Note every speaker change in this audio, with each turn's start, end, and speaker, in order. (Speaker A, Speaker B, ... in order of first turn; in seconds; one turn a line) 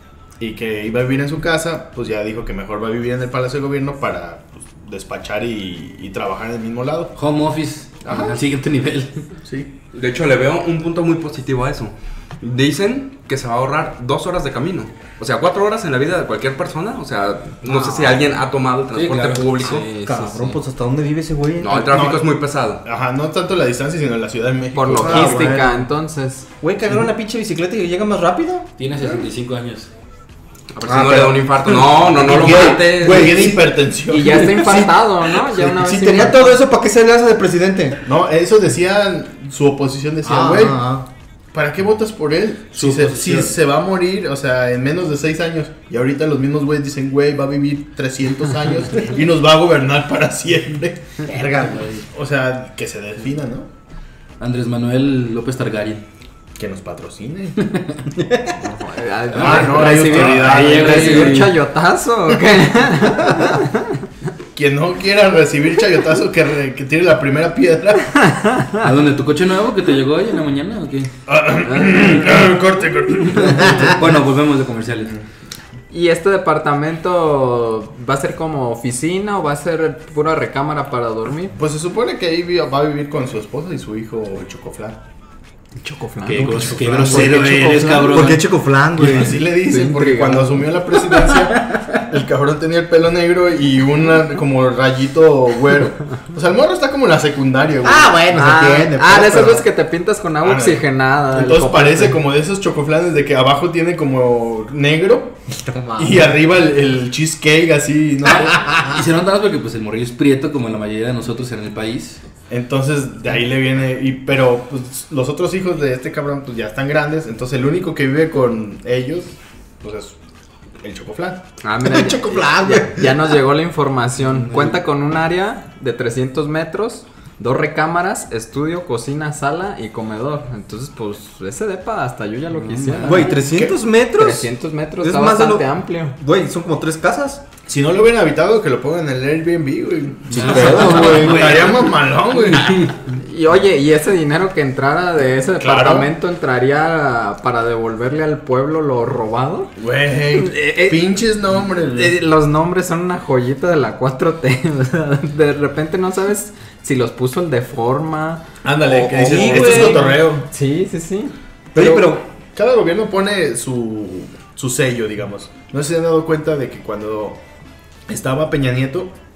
Speaker A: 0.4-7.1
Speaker B: 7.1-9.3
Speaker A: 9.4-9.7
Speaker C: 9.9-19.9
Speaker B: 18.9-19.8
Speaker D: 19.6-22.1
Speaker E: 19.8-20.3
Speaker C: 21.6-22.8
Speaker A: 21.9-22.2
Speaker A: 22.8-25.5
Speaker E: 24.7-26.5
Speaker D: 24.9-25.9
Speaker D: 26.6-28.7
Speaker B: 28.8-29.9
Speaker C: 30.8-33.5
Speaker D: 30.8-33.6
Speaker A: 32.2-34.5
Speaker E: 34.1-36.6
Speaker D: 34.3-38.0
Speaker A: 38.0-40.8
Speaker D: 40.2-41.1
Speaker A: 41.5-51.3
Speaker B: 42.7-43.5
Speaker D: 51.2-52.0
Speaker A: 52.1-53.7
Speaker B: 54.4-56.0
Speaker A: 56.6-57.6
Speaker D: 58.1-58.5
Speaker E: 58.5-64.0
Speaker B: 59.3-61.6
Speaker A: 59.4-61.5
Speaker A: 64.5-68.3
Speaker E: 68.3-68.8
Speaker B: 68.8-71.1
Speaker A: 71.3-74.2
Speaker B: 71.6-72.5
Speaker B: 73.2-75.1
Speaker E: 75.9-81.5
Speaker A: 81.5-85.0
Speaker E: 85.8-88.3
Speaker B: 86.3-89.2
Speaker A: 86.3-87.6
Speaker D: 88.1-89.4
Speaker A: 89.0-98.8
Speaker E: 89.6-90.7
Speaker B: 91.7-92.0
Speaker D: 97.8-99.6
Speaker E: 98.7-102.2
Speaker A: 100.4-105.4
Speaker D: 105.5-106.3
Speaker A: 106.0-108.8
Speaker B: 108.2-112.2
Speaker D: 108.5-109.0
Speaker A: 112.5-120.2
Speaker A: 120.8-121.4
Speaker E: 121.6-133.4
Speaker D: 121.8-123.3
Speaker B: 124.3-124.8
Speaker B: 132.7-133.4
Speaker D: 133.0-134.5
Speaker E: 134.1-136.2
Speaker D: 135.0-137.4
Speaker A: 137.7-142.9
Speaker D: 140.3-141.6
Speaker B: 140.3-141.9
Speaker B: 142.5-142.9
Speaker E: 143.1-149.7
Speaker A: 145.6-146.1
Speaker A: 149.8-152.2
Speaker E: 150.5-151.0
Speaker E: 151.8-158.4
Speaker A: 158.6-160.4
Speaker D: 158.8-160.2
Speaker E: 159.4-161.3
Speaker B: 159.5-160.0
Speaker D: 161.7-162.3
Speaker A: 161.7-167.4
Speaker A: 168.1-169.1